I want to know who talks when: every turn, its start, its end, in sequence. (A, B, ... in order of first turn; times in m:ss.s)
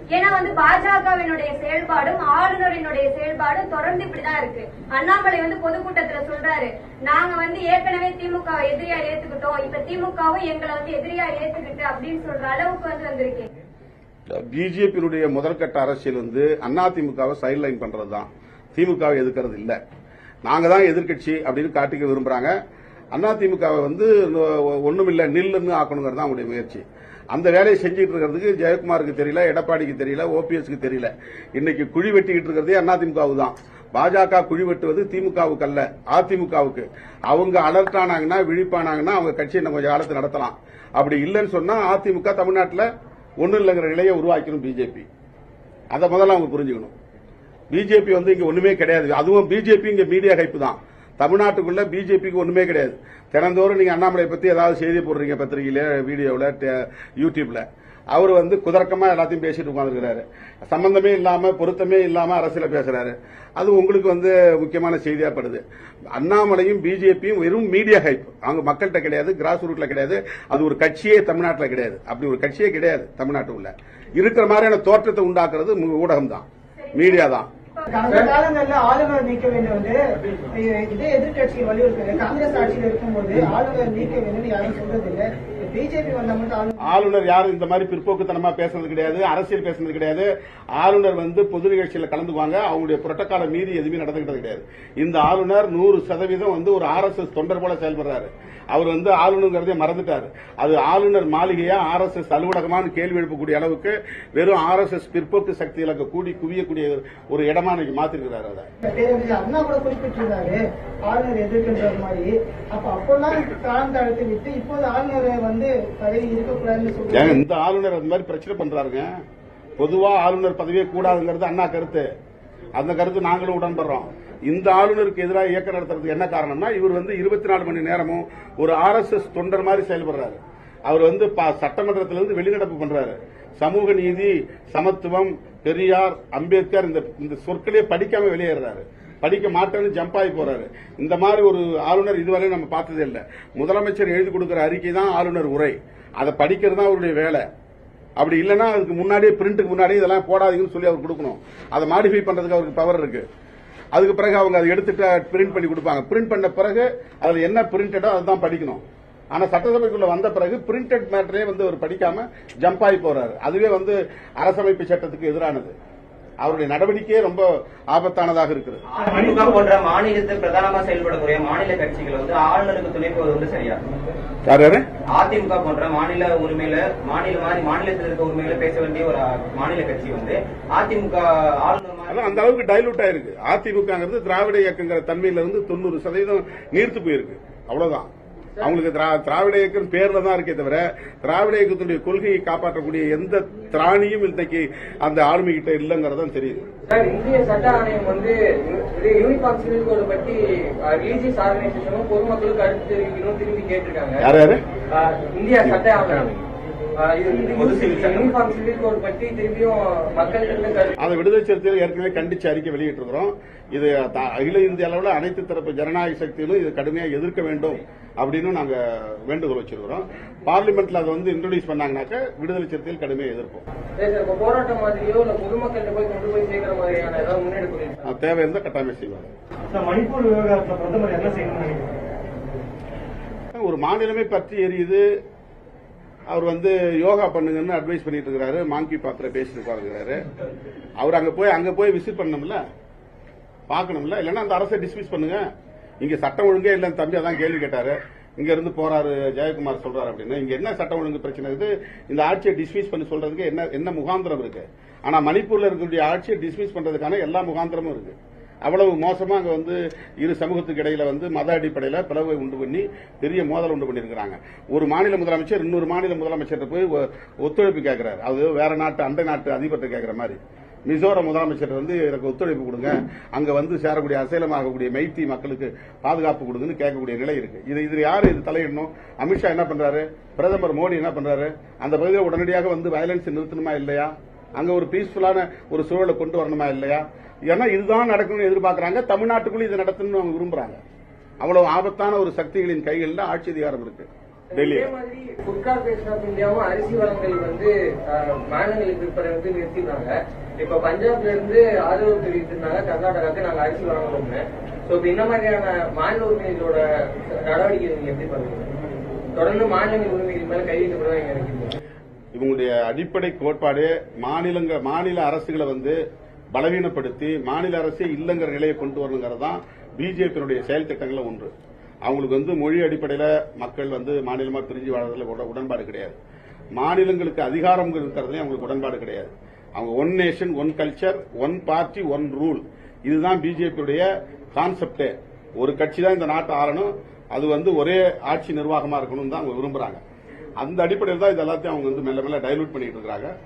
0:00.1-0:13.5 A
0:14.3-0:19.8 B
0:20.5-0:22.6 B
0:23.1-0:42.9 B
0:43.4-0:45.1 B
0:45.9-0:46.9 B
0:47.7-1:05.6 B
1:06.2-1:17.5 B
1:16.8-1:17.9 A
1:17.9-1:26.8 C
1:26.8-1:48.7 B
1:48.8-1:57.4 C
1:57.1-1:59.1 B
1:59.8-2:02.1 B
2:02.8-2:27.4 B
2:28.2-2:33.2 B
2:33.9-2:45.7 B
2:46.4-2:48.8 B
2:48.9-2:53.8 D
2:49.0-2:49.5 E
2:54.5-2:54.8 B
2:55.1-3:02.5 D
3:02.1-3:08.1 B
3:08.6-3:16.6 B
3:16.9-3:24.2 F
3:24.2-3:24.6 B
3:24.9-3:26.4 F
3:27.0-3:31.0 F
3:27.3-3:28.5 D
3:31.0-3:43.6 B
3:44.0-3:48.0 F
3:48.0-3:49.3 B
3:49.7-3:52.0 E
3:53.5-3:55.0 B
3:56.3-4:00.2 B
4:01.0-4:02.6 B
4:03.7-4:05.5 B
4:06.0-4:50.8 B
4:51.4-4:54.9 B
4:54.5-5:08.7 F
5:09.4-5:11.7 F
5:12.4-5:16.0 B
5:16.5-5:21.5 B
5:22.0-5:26.2 B
5:26.8-5:40.0 B
5:40.6-5:43.3 B